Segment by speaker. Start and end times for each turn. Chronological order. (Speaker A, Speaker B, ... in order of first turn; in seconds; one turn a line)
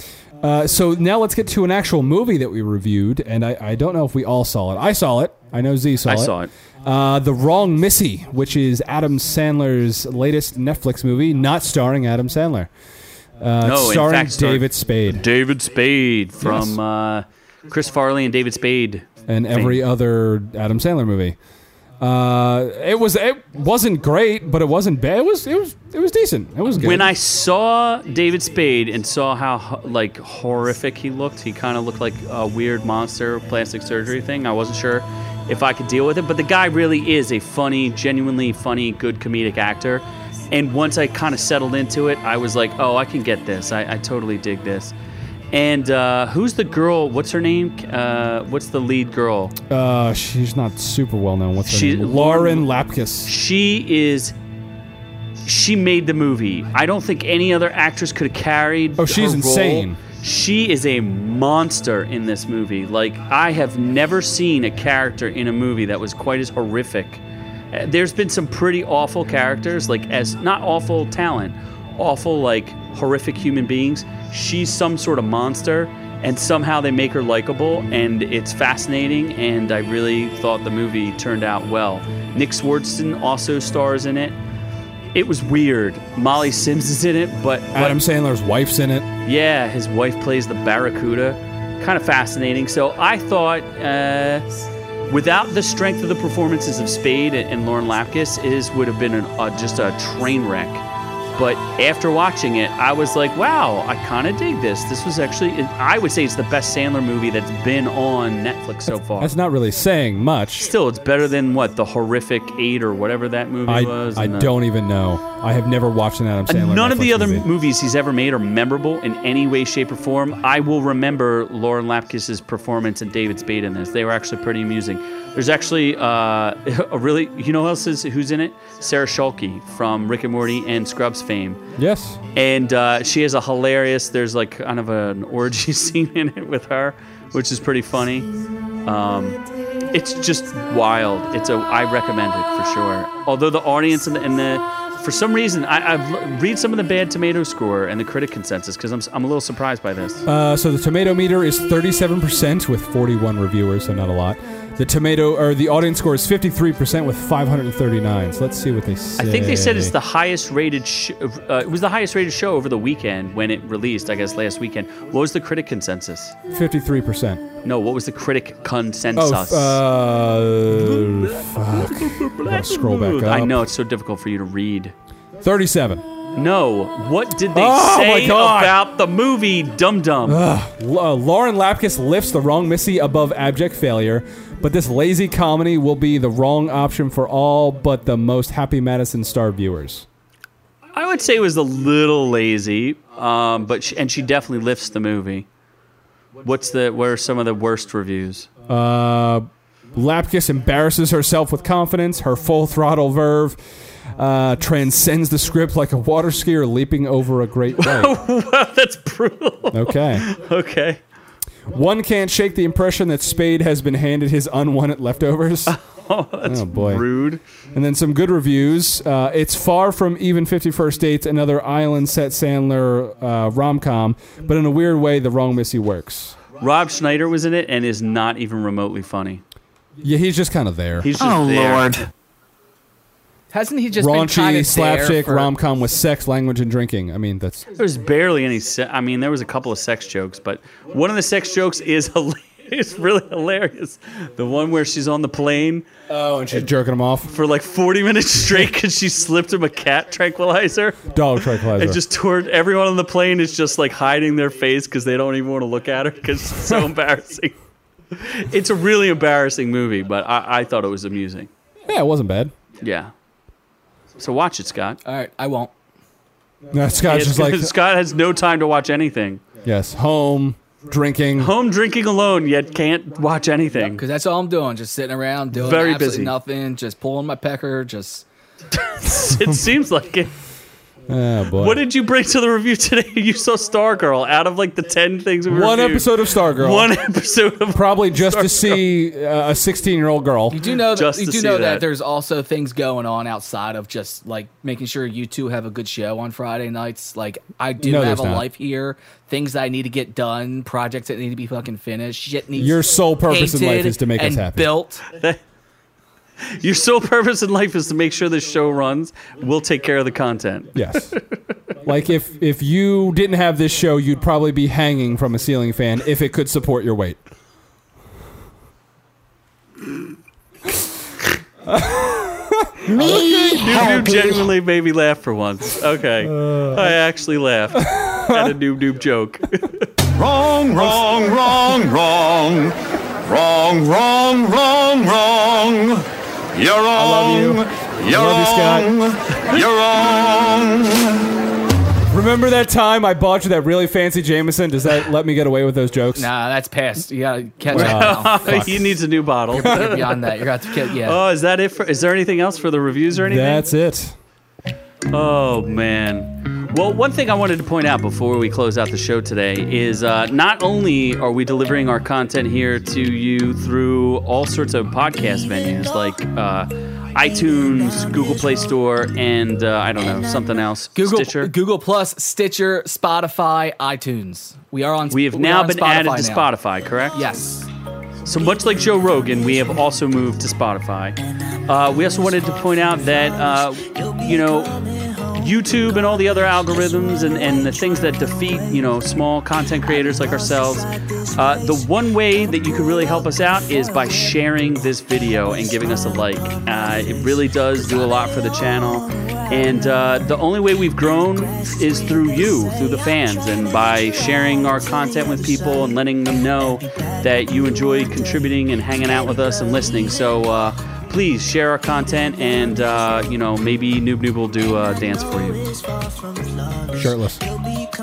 Speaker A: 0.4-12.7
Speaker B: 6.0-6.5
Speaker A: 13.4-15.2
Speaker B: 13.6-19.8
Speaker A: 16.4-16.8
Speaker A: 19.3-21.4
Speaker A: 22.0-27.1
Speaker B: 26.8-44.9
Speaker B: 45.5-49.6
Speaker A: 49.7-53.3
Speaker B: 51.6-52.7
Speaker B: 53.3-54.4
Speaker B: 55.5-84.4
Speaker A: 59.0-60.0
Speaker B: 85.1-88.0
Speaker A: 87.7-89.1
Speaker B: 89.2-94.4
Speaker B: 95.1-100.8
Speaker B: 101.4-109.3
Speaker A: 109.2-110.7
Speaker B: 110.6-114.5
Speaker A: 113.7-117.5
Speaker B: 116.5-131.6
Speaker A: 131.8-132.2
Speaker B: 132.3-138.3
Speaker B: 138.8-139.4
Speaker B: 139.9-150.2
Speaker A: 150.3-159.9
Speaker B: 159.2-166.3
Speaker A: 166.5-167.4
Speaker B: 167.6-169.8
Speaker A: 169.2-173.6
Speaker B: 171.6-174.9
Speaker A: 175.4-176.1
Speaker B: 176.3-180.4
Speaker A: 177.5-178.8
Speaker A: 180.2-190.1
Speaker B: 190.9-195.5
Speaker B: 196.4-198.5
Speaker A: 198.7-203.6
Speaker A: 204.2-208.2
Speaker B: 207.8-211.0
Speaker A: 209.7-210.3
Speaker A: 211.7-215.8
Speaker B: 215.7-217.4
Speaker A: 216.4-217.1
Speaker A: 217.7-226.4
Speaker B: 226.6-229.4
Speaker A: 230.0-231.1
Speaker B: 231.0-232.1
Speaker C: 231.2-232.1
Speaker D: 233.5-235.5
Speaker A: 234.0-237.7
Speaker B: 237.8-245.9
Speaker A: 246.1-247.3
Speaker B: 247.3-257.5
Speaker A: 251.1-252.0
Speaker B: 258.1-261.5
Speaker A: 261.9-262.5
Speaker B: 262.8-263.1
Speaker B: 264.2-265.0
Speaker D: 265.1-265.7
Speaker A: 266.7-267.7
Speaker B: 267.1-269.4
Speaker A: 269.6-271.5
Speaker B: 271.4-274.0
Speaker D: 273.8-278.2
Speaker B: 275.5-276.3
Speaker B: 278.8-280.3
Speaker A: 281.1-281.8
Speaker B: 281.6-288.8
Speaker A: 285.5-286.9
Speaker A: 287.7-290.6
Speaker D: 290.5-305.0
Speaker B: 290.9-291.9
Speaker A: 297.8-298.5
Speaker A: 302.6-304.8
Speaker B: 306.4-311.2
Speaker A: 310.8-311.2
Speaker A: 311.9-317.2
Speaker A: 321.7-324.4
Speaker B: 322.9-329.9
Speaker A: 326.2-326.9
Speaker A: 327.7-328.5
Speaker C: 330.2-341.0
Speaker A: 330.8-331.8
Speaker A: 336.9-339.0
Speaker A: 342.1-346.3
Speaker D: 346.2-348.7
Speaker B: 347.7-353.6
Speaker A: 347.7-348.9
Speaker D: 349.5-351.2
Speaker A: 353.2-354.2
Speaker B: 355.1-371.5
Speaker D: 371.0-376.5
Speaker B: 375.1-377.2
Speaker D: 377.1-377.7
Speaker B: 378.2-415.8
Speaker A: 416.9-417.4